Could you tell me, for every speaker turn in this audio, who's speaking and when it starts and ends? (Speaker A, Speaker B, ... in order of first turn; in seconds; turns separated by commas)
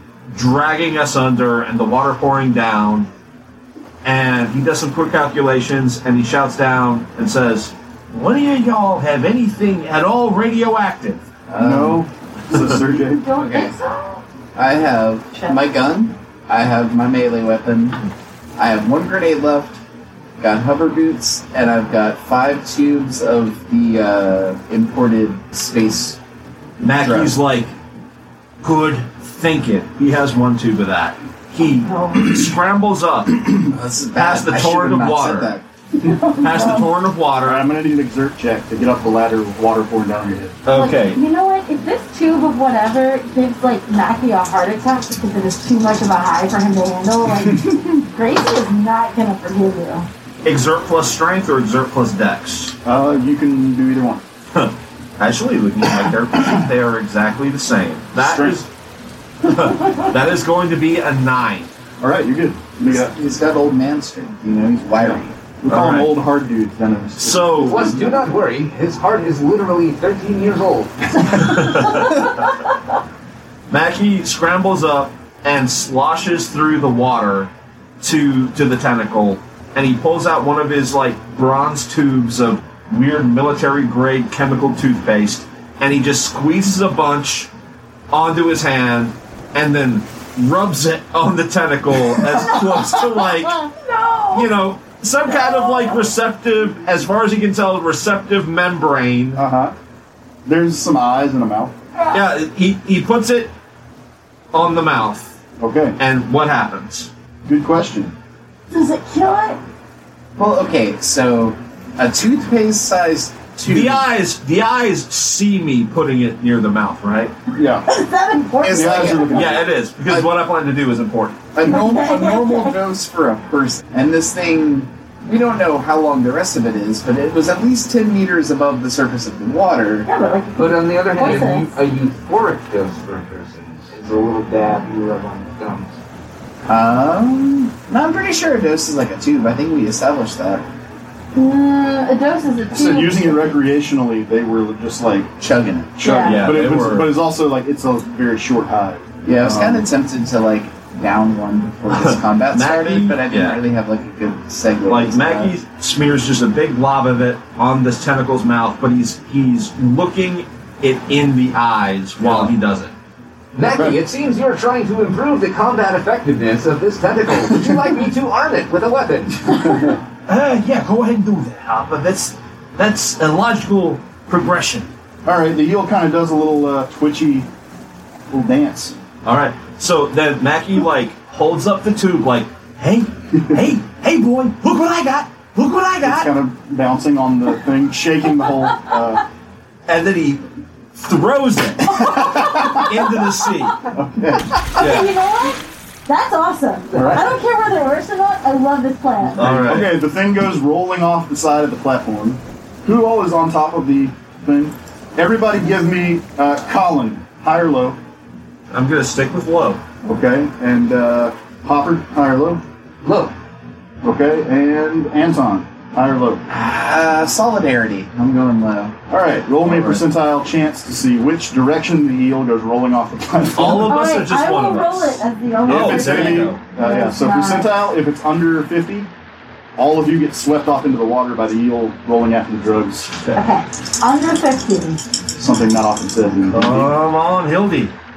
Speaker A: 0.3-3.1, Speaker A: 4.0-11.3, Speaker B: 11.5-12.0, Speaker C: 11.6-13.3, Speaker D: 12.9-14.2, Speaker B: 13.3-13.8, Speaker B: 14.6-18.0, Speaker D: 15.3-15.6, Speaker B: 18.6-19.8, Speaker B: 20.4-26.2, Speaker A: 26.8-27.7, Speaker B: 26.9-27.4, Speaker A: 28.6-35.5, Speaker D: 31.9-32.3, Speaker B: 33.7-35.6, Speaker D: 36.0-36.9, Speaker A: 36.4-37.7, Speaker C: 37.4-40.6, Speaker A: 40.6-41.2, Speaker D: 40.7-50.1, Speaker C: 47.4-47.9, Speaker A: 50.4-52.8, Speaker C: 52.9-54.2, Speaker A: 54.5-58.7, Speaker C: 58.2-58.6, Speaker A: 59.4-61.7, Speaker C: 62.0-63.1, Speaker B: 62.8-65.4, Speaker C: 65.0-68.2, Speaker A: 65.7-66.2, Speaker A: 67.2-68.0, Speaker E: 67.7-71.3, Speaker A: 71.3-72.4, Speaker A: 73.7-77.5, Speaker A: 78.0-87.5, Speaker A: 88.1-93.7, Speaker D: 93.2-94.5, Speaker A: 94.3-99.4, Speaker D: 95.3-96.1, Speaker C: 99.3-99.7, Speaker C: 100.5-101.7, Speaker A: 102.1-103.5, Speaker A: 104.5-105.4, Speaker C: 105.6-106.0, Speaker A: 106.0-107.1, Speaker C: 107.5-108.1, Speaker D: 108.7-109.6, Speaker B: 110.4-114.1, Speaker A: 113.6-117.3, Speaker C: 117.5-117.9, Speaker D: 117.9-119.6, Speaker B: 118.6-120.3, Speaker C: 118.7-119.7, Speaker A: 119.3-121.5, Speaker B: 121.5-130.1, Speaker D: 121.6-122.8, Speaker D: 130.1-131.7, Speaker E: 130.6-136.0, Speaker B: 136.7-140.7, Speaker D: 141.3-143.6, Speaker C: 142.7-145.3, Speaker B: 145.4-146.0, Speaker C: 146.0-149.9, Speaker D: 146.0-146.4, Speaker A: 146.2-147.1, Speaker B: 149.3-155.6, Speaker A: 151.9-153.6, Speaker A: 154.9-162.9, Speaker E: 163.6-169.7, Speaker C: 169.6-170.0, Speaker A: 170.3-174.9, Speaker C: 175.2-177.5, Speaker C: 178.3-179.0, Speaker A: 179.2-186.3, Speaker C: 186.0-189.2, Speaker A: 189.9-190.4, Speaker A: 190.9-193.8, Speaker D: 191.9-192.9, Speaker C: 192.0-192.8, Speaker C: 193.9-194.7, Speaker D: 194.7-199.5, Speaker A: 194.8-195.1, Speaker E: 196.9-197.2, Speaker C: 196.9-197.3, Speaker A: 199.4-200.0, Speaker C: 199.4-208.0, Speaker A: 208.7-209.8, Speaker C: 210.0-212.6, Speaker E: 213.0-213.3, Speaker C: 214.0-216.4, Speaker B: 216.5-219.0, Speaker C: 219.1-224.0, Speaker B: 219.6-220.1, Speaker A: 223.5-226.6, Speaker D: 223.8-227.8, Speaker C: 225.7-229.1, Speaker C: 229.8-233.1, Speaker D: 233.3-235.0, Speaker C: 235.4-236.9, Speaker A: 236.5-237.9